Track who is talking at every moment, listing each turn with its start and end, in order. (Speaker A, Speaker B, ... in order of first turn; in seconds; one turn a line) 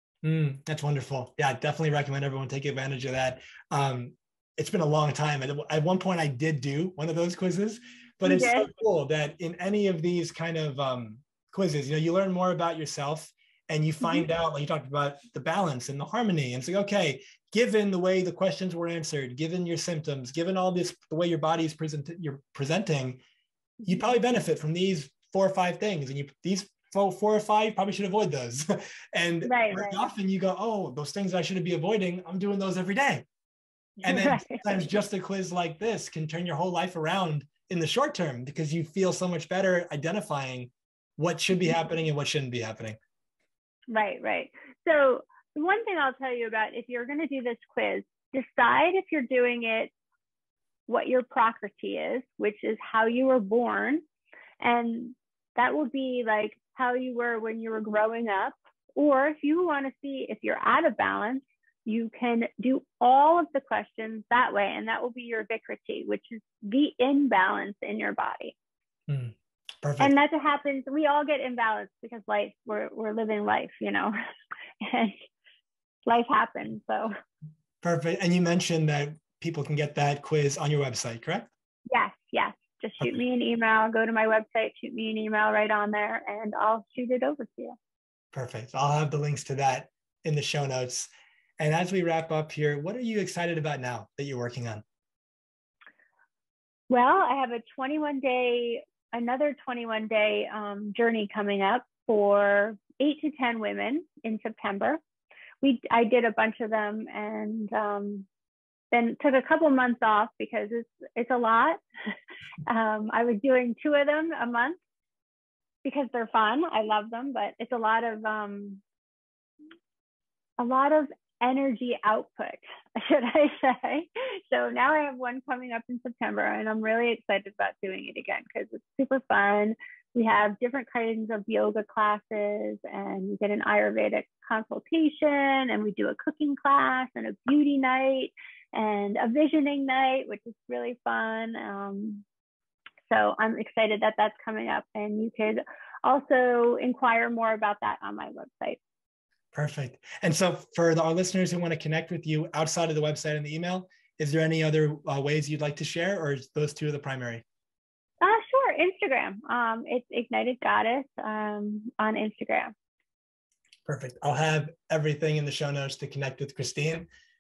Speaker A: 0.2-23.2
Speaker B: 8.2-8.7
Speaker A: 23.9-33.2
Speaker B: 29.4-30.1
Speaker A: 34.0-43.0
Speaker B: 34.0-34.8
Speaker B: 43.9-49.9
Speaker B: 50.9-54.0
Speaker B: 54.6-68.5
Speaker A: 69.1-70.1
Speaker B: 70.0-74.1
Speaker B: 74.8-75.2
Speaker B: 76.0-77.1
Speaker A: 77.8-81.5
Speaker B: 81.9-87.8
Speaker A: 88.3-94.8
Speaker B: 96.9-105.0
Speaker B: 105.6-108.3
Speaker B: 108.9-111.8
Speaker B: 112.7-114.8
Speaker B: 115.8-118.8
Speaker B: 120.6-142.2
Speaker B: 143.1-148.8
Speaker A: 149.5-157.4
Speaker B: 158.2-162.7
Speaker A: 163.9-167.1